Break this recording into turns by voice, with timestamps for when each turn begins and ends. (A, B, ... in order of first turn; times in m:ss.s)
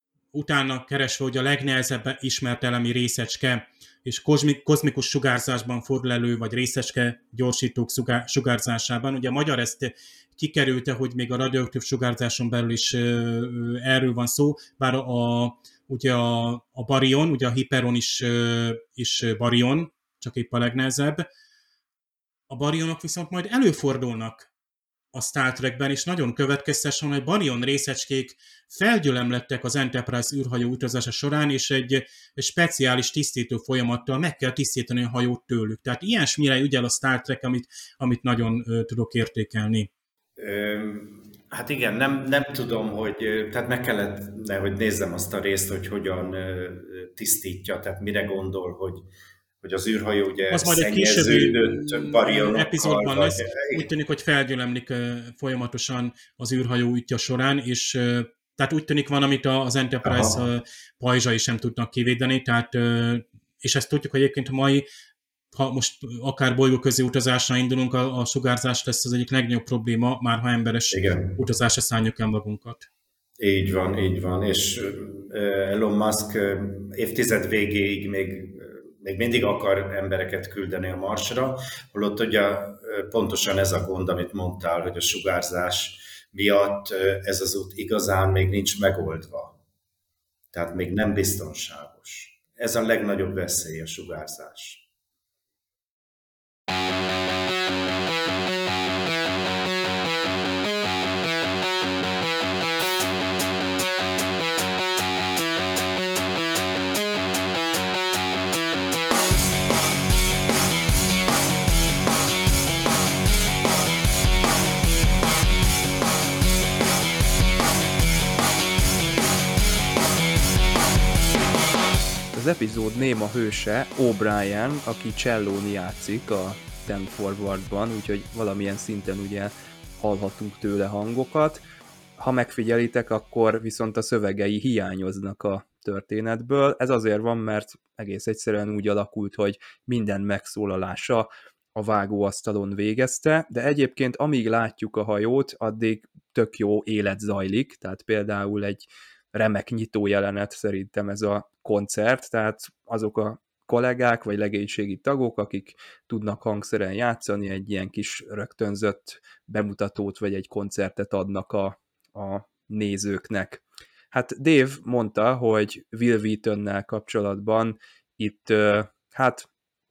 0:00.3-0:21.3 A
0:22.5-0:24.5 A
0:25.1-0:39.9 A
0:40.4-0:49.1 B
0:49.6-0:53.9 B
0:50.5-1:04.8 A
1:00.0-1:00.4 B
1:05.5-1:12.9 A
1:10.9-1:11.4 B
1:13.4-1:29.6 B
1:30.5-1:34.8 B
2:02.3-2:11.6 C
2:12.2-2:49.5 C